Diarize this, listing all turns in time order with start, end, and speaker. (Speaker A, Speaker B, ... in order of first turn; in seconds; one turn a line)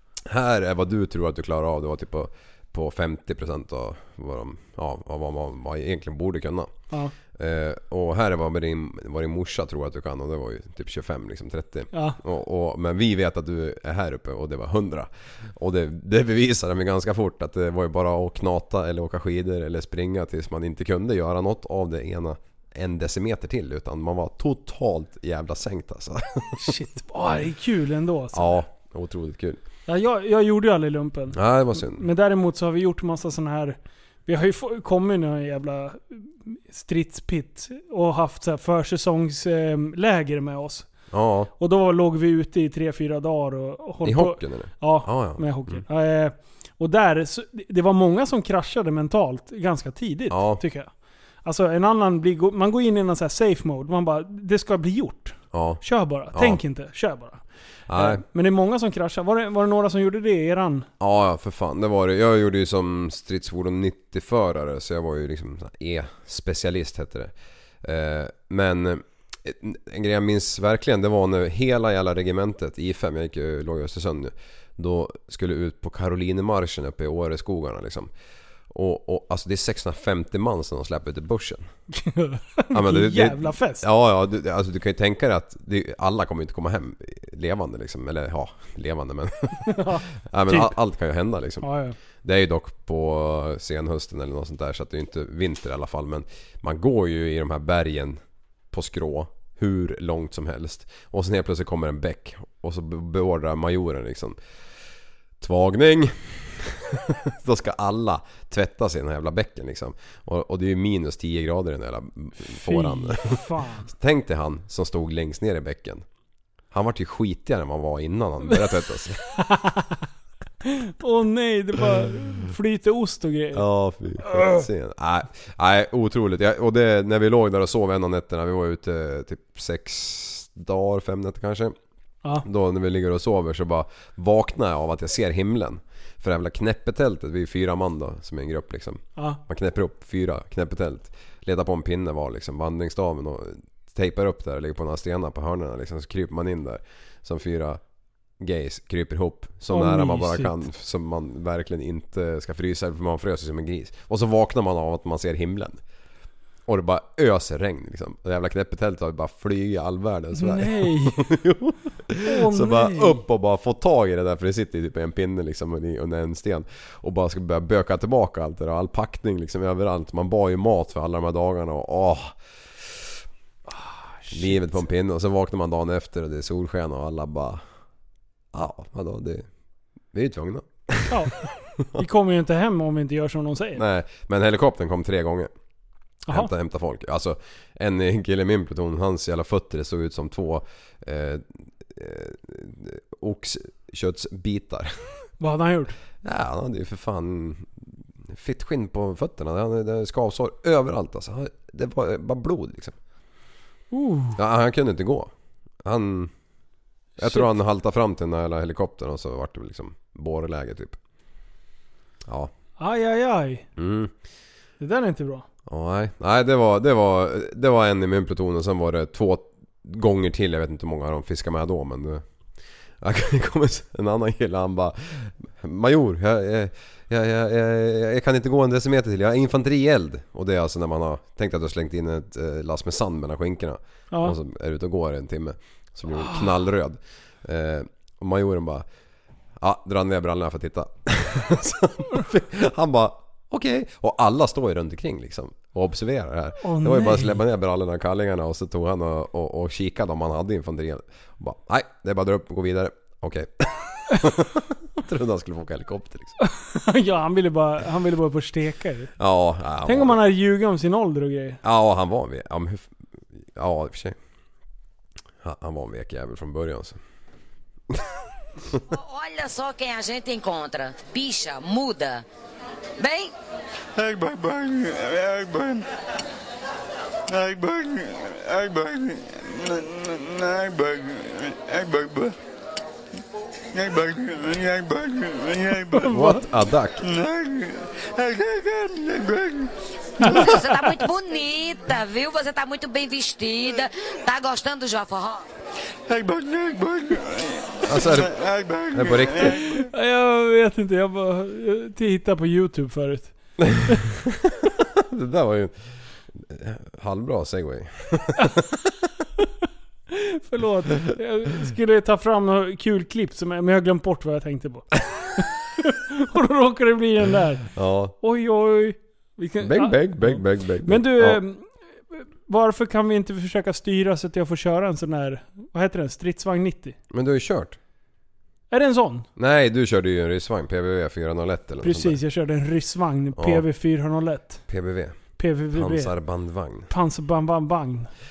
Speaker A: 0.2-6.7
Speaker A: 7.3-26.7
Speaker B: 11.9-12.2
Speaker B: 26.5-28.6
Speaker A: 28.3-29.6
Speaker B: 29.9-40.9
Speaker A: 31.3-32.1
Speaker A: 41.1-41.5
Speaker B: 41.6-50.9
Speaker A: 44.0-45.8
Speaker A: 50.3-50.6
Speaker B: 51.4-57.4
Speaker A: 55.5-56.6
Speaker A: 57.9-58.2
Speaker B: 57.9-60.9
Speaker A: 61.0-78.1
Speaker A: 78.7-81.7
Speaker B: 81.9-83.8
Speaker A: 82.7-91.7
Speaker B: 89.7-90.7
Speaker B: 91.6-92.0
Speaker A: 92.2-98.2
Speaker A: 98.7-104.4
Speaker A: 105.4-116.0
Speaker B: 112.5-113.9
Speaker A: 116.7-119.2
Speaker B: 119.4-120.0
Speaker B: 120.6-123.6
Speaker A: 123.5-131.7
Speaker B: 124.2-124.6
Speaker A: 132.4-147.8
Speaker A: 148.4-155.8
Speaker B: 149.7-150.6
Speaker A: 156.7-172.4
Speaker B: 160.3-161.2
Speaker B: 162.2-163.2
Speaker B: 174.2-174.6
Speaker A: 174.3-177.6
Speaker A: 178.5-179.5
Speaker A: 180.1-182.0
Speaker B: 181.1-183.8
Speaker A: 183.8-185.5
Speaker A: 186.3-195.2
Speaker B: 195.4-195.9
Speaker A: 196.2-202.9
Speaker B: 203.9-204.4
Speaker A: 204.3-205.3
Speaker A: 205.8-206.3
Speaker A: 207.2-211.0
Speaker B: 207.2-207.5
Speaker A: 212.3-212.5
Speaker B: 212.8-213.7
Speaker A: 213.8-214.1
Speaker B: 214.8-215.4
Speaker A: 215.7-222.2
Speaker A: 223.0-238.8
Speaker A: 239.6-256.3
Speaker B: 246.6-247.4
Speaker B: 256.4-259.1
Speaker A: 259.2-260.2
Speaker B: 259.8-261.6
Speaker A: 261.6-264.1
Speaker A: 265.4-267.0
Speaker C: 268.9-272.2
Speaker C: 273.0-273.3
Speaker D: 274.0-275.9
Speaker D: 277.3-282.4
Speaker D: 283.7-286.1
Speaker B: 285.9-286.4
Speaker A: 286.1-287.0
Speaker D: 287.0-289.7
Speaker B: 290.2-290.5
Speaker C: 290.2-295.5
Speaker D: 296.1-299.7
Speaker A: 297.9-298.3
Speaker A: 298.9-299.6
Speaker B: 299.7-303.3
Speaker A: 303.7-305.8
Speaker A: 306.3-308.9
Speaker B: 310.1-317.7
Speaker A: 317.7-318.1
Speaker B: 318.2-326.9
Speaker A: 319.6-321.4
Speaker A: 327.1-327.8
Speaker B: 328.7-329.3
Speaker A: 329.4-332.2
Speaker B: 331.8-334.6
Speaker A: 333.4-333.6
Speaker A: 334.7-335.1
Speaker B: 335.4-336.1
Speaker A: 335.7-336.9
Speaker B: 336.9-338.1